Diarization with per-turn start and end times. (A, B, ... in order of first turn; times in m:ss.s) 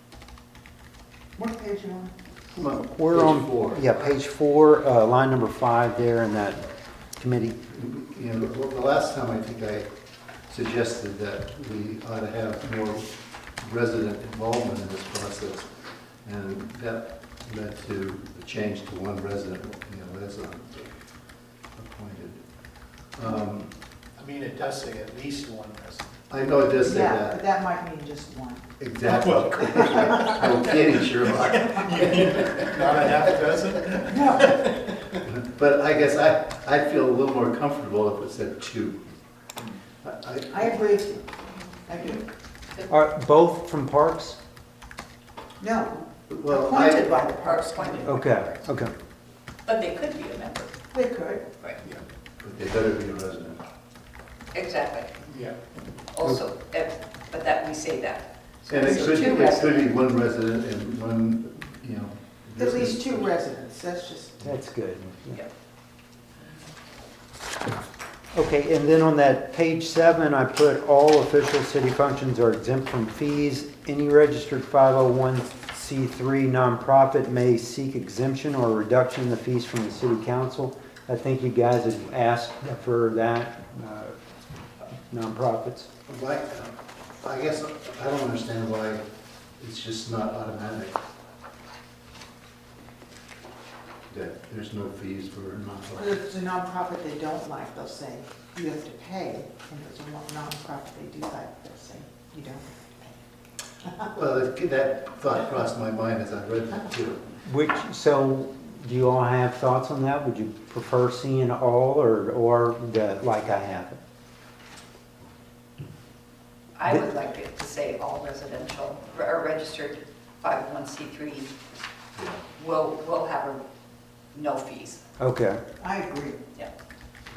0:01.4-0:02.2 A
0:02.5-0:03.8 B
0:02.7-0:06.6 C
0:07.2-0:07.6 C
0:07.7-0:09.9 B
0:10.5-0:15.7 B
0:16.2-0:20.9 B
0:21.8-0:22.4 B
0:23.2-0:23.7 B
0:24.2-0:26.2 D
0:26.3-0:27.4 B
0:26.8-0:28.7 A
0:28.8-0:32.6 B
0:29.0-0:35.2 D
0:29.7-0:30.4 A
0:34.1-0:34.5 C
0:35.2-0:39.0 B
0:40.0-0:40.8 B
0:40.5-0:41.2 A
0:41.9-0:42.2 A
0:42.9-0:44.4 C
0:45.6-0:48.1 A
0:46.3-0:47.3 B
0:47.3-0:48.6 E
0:48.0-0:48.9 C
0:49.6-0:50.7 E
0:50.9-0:51.4 A
0:52.4-0:53.6 B
0:54.5-0:55.2 E
0:55.2-0:55.6 D
0:56.1-0:59.9 E
0:58.7-1:03.3 B
1:02.6-1:04.4 A
1:04.4-1:05.4 C
1:08.3-1:24.2 C
1:25.1-1:25.9 C
1:26.1-1:29.0 B
1:29.6-1:31.0 B
1:34.1-1:36.2 B
1:36.0-1:43.2 A
1:44.1-1:47.2 B
1:47.4-1:54.0 C
1:56.8-2:01.5 E
2:02.6-2:03.6 E
2:04.3-2:05.0 E
2:05.2-2:05.6 C
2:05.8-2:06.4 A